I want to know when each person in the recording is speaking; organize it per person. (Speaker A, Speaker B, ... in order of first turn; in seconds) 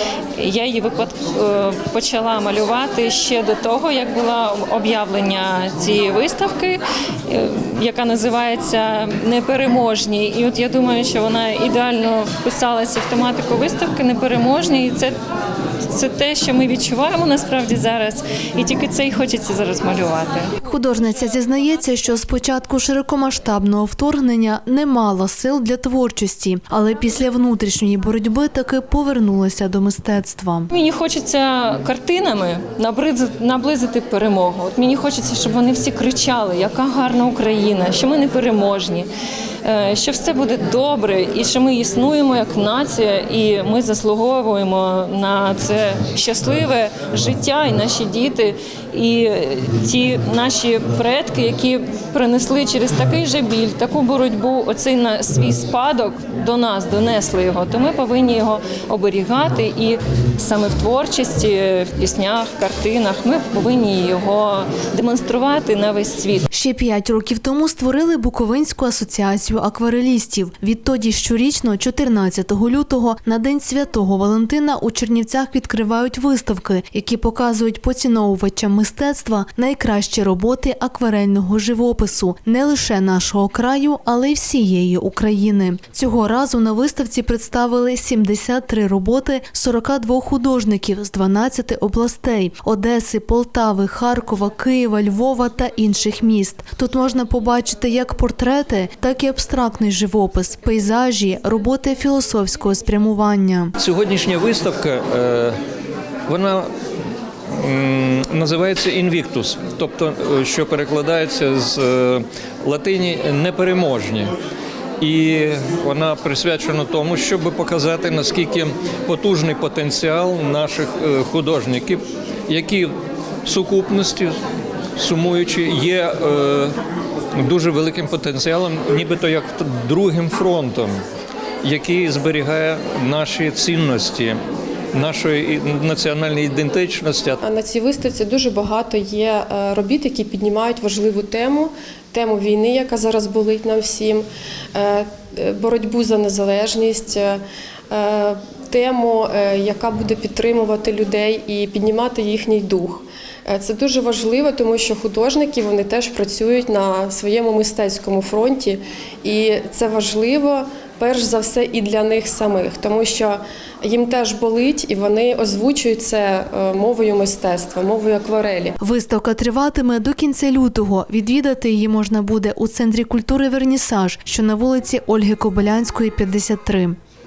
Speaker A: 0.3-15.2, 15.9-20.5, 30.7-39.1, 39.6-66.5
Speaker B: 20.6-30.7, 66.5-103.7, 168.8-176.9
Speaker C: 103.8-105.5, 106.3-106.7, 107.6-114.3, 115.0-122.9, 123.4-124.3, 125.0-126.7, 127.4-130.9, 131.6-134.4, 134.9-137.4
Speaker D: 137.4-168.8